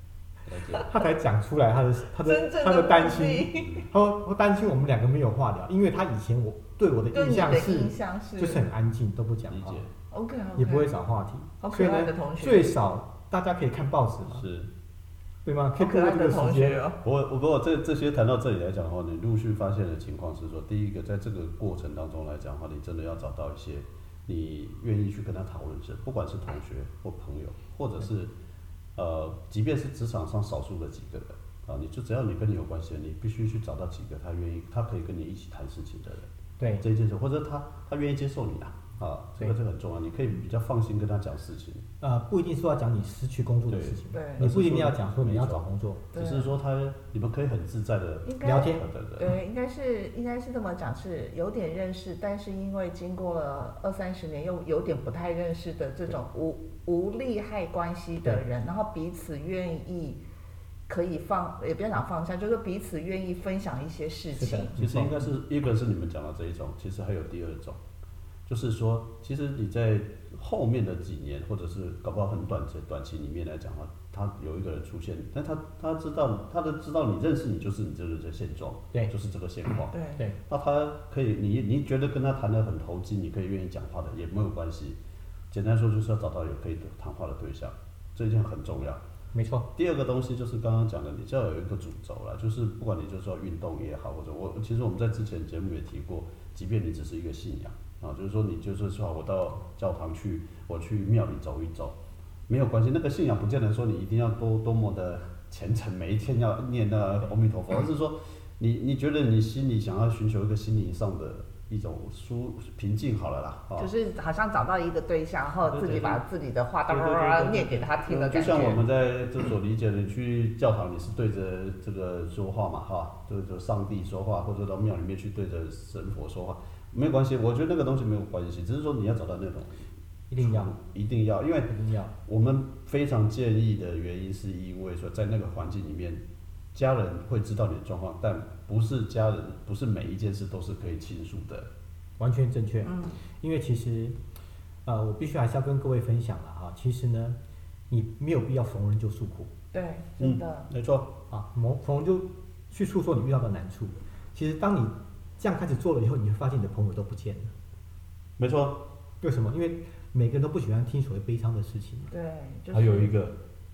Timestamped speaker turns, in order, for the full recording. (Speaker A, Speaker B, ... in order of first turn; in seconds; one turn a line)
Speaker A: 0.5-0.9
Speaker B: 0.8-9.8
Speaker C: 2.2-3.9
Speaker C: 7.1-8.6
Speaker A: 9.5-9.9
Speaker C: 10.1-10.9
Speaker B: 10.6-14.4
Speaker C: 11.6-12.7
Speaker A: 14.3-14.7
Speaker B: 15.4-16.8
Speaker C: 15.8-17.0
Speaker A: 17.0-28.3
Speaker A: 28.9-41.9
Speaker B: 36.6-36.8
Speaker B: 42.0-46.0
Speaker A: 43.7-49.3
Speaker C: 44.1-44.5
Speaker C: 46.1-46.5
Speaker C: 48.2-60.2
Speaker B: 48.4-48.9
Speaker C: 60.9-64.7
Speaker B: 64.3-65.3
Speaker A: 64.8-67.8
Speaker A: 68.5-80.0
Speaker C: 79.9-80.2
Speaker A: 80.5-85.0
Speaker A: 85.5-89.0
Speaker B: 89.3-89.7
Speaker A: 89.7-102.0
Speaker A: 102.5-113.9
Speaker C: 113.8-118.8
Speaker A: 115.7-116.2
Speaker A: 116.9-131.7
Speaker B: 118.1-118.8
Speaker B: 130.3-130.7
Speaker B: 131.7-132.1
Speaker A: 132.2-136.2
Speaker A: 136.7-141.7
Speaker B: 142.2-144.2
Speaker C: 142.8-143.2
Speaker B: 144.8-147.4
Speaker B: 147.9-149.5
Speaker C: 149.7-150.7
Speaker A: 150.2-151.1
Speaker B: 151.3-157.5
Speaker A: 158.4-158.8
Speaker B: 159.2-162.1
Speaker C: 162.1-163.1
Speaker A: 162.7-163.3